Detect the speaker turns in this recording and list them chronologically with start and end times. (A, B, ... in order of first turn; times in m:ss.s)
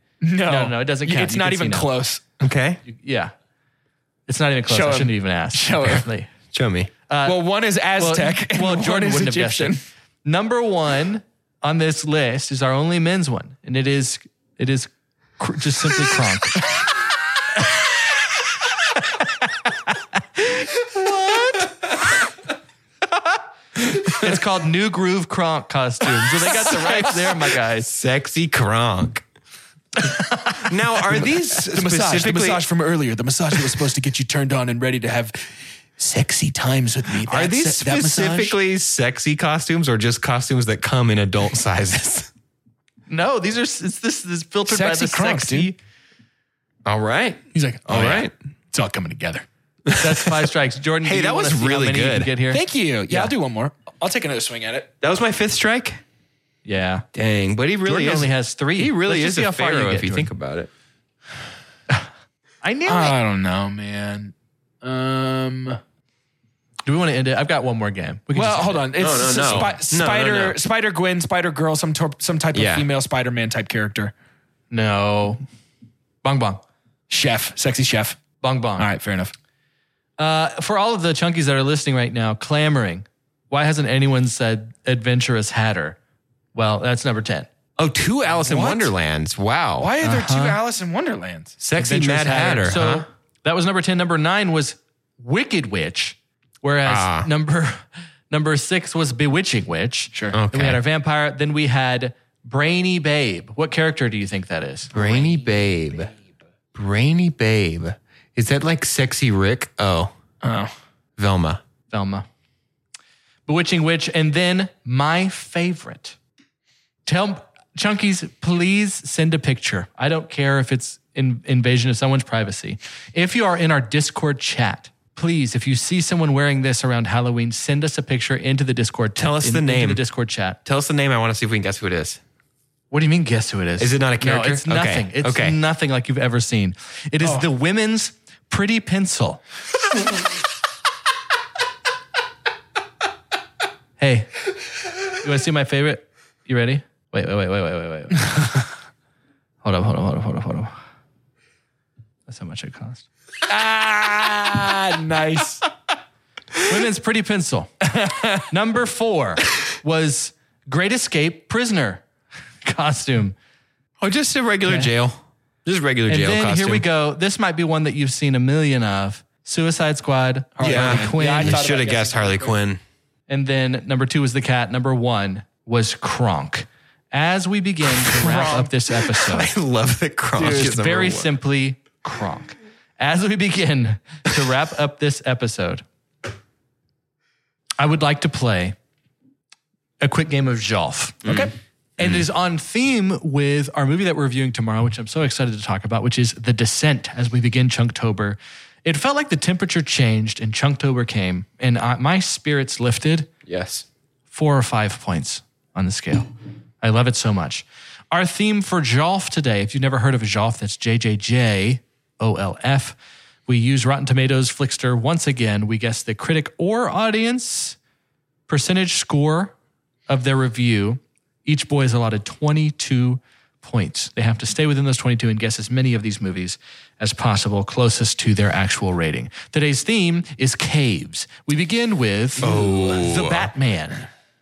0:00.2-0:02.2 A
0:00.5-0:01.9 B
0:02.4-0:02.8 C
0:02.8-0:03.3 B
0:04.3-0:06.3 B
0:04.7-0:06.1 A
0:06.5-0:06.9 C
0:07.1-0:07.4 B
0:07.2-0:09.8 A
0:08.0-0:16.7 B
0:19.2-0:21.7 B
0:24.0-0:27.9 B
0:26.4-0:29.2 C
0:30.0-0:30.5 B
0:30.6-0:32.6 C
0:31.1-0:35.5 A
0:36.0-0:38.6 A
0:37.3-0:42.3 C
0:43.1-0:45.8 B
0:44.7-0:45.7 A
0:46.8-0:48.3 C
0:47.5-0:49.4 A
0:49.9-0:50.4 C
0:50.0-0:53.3 B
0:51.0-0:52.3 C
0:52.5-0:54.9 A
0:55.0-0:56.0 C
0:56.6-0:57.0 B
0:57.1-1:00.7 C
0:57.9-1:00.3 B
1:02.6-1:03.2 B
1:02.9-1:05.8 A
1:06.9-1:09.0 B
1:08.3-1:14.1 A
1:09.0-1:10.6 C
1:12.5-1:12.9 C
1:14.7-1:15.4 B
1:16.2-1:16.6 B
1:17.1-1:18.2 A
1:18.4-1:18.9 B
1:18.8-1:19.3 A
1:20.2-1:26.0 B
1:26.5-1:27.5 B
1:27.8-1:29.9 C
1:28.4-1:28.9 A
1:29.8-1:32.7 A
1:30.0-1:30.6 B
1:31.6-1:33.1 C
1:32.6-1:44.9 B
1:36.9-1:37.3 C
1:40.3-1:40.8 C
1:44.9-1:46.1 A
1:44.9-1:46.1 C
1:46.8-1:50.1 C
1:50.4-1:50.7 A
1:51.2-1:51.6 C
1:51.9-1:52.2 B
1:53.5-1:56.2 B
1:57.1-2:10.6 B
2:09.2-2:10.0 C
2:10.6-2:12.2 C
2:12.9-2:19.4 B
2:13.8-2:15.6 C
2:24.0-2:24.4 B
2:25.2-2:28.7 B
2:29.6-2:30.7 B
2:32.3-2:33.0 B
2:33.5-2:35.6 A
2:36.7-2:42.0 B
2:42.6-2:43.4 B
2:44.0-2:46.8 C
2:44.6-2:44.9 B
2:46.1-2:51.6 B
2:50.6-2:52.6 A
2:50.6-2:52.8 C
2:53.3-2:59.5 B
2:58.1-2:58.7 A
2:59.1-3:01.3 C
3:00.4-3:05.8 B
3:07.8-3:08.8 B
3:10.0-3:11.2 B
3:11.2-3:12.2 C
3:11.3-3:11.5 A
3:12.0-3:23.3 B
3:23.5-3:23.8 C
3:24.3-3:26.3 B
3:26.8-3:37.8 B
3:38.5-3:39.5 B
3:40.1-3:54.1 B
3:52.4-3:53.1 A
3:52.4-3:53.5 C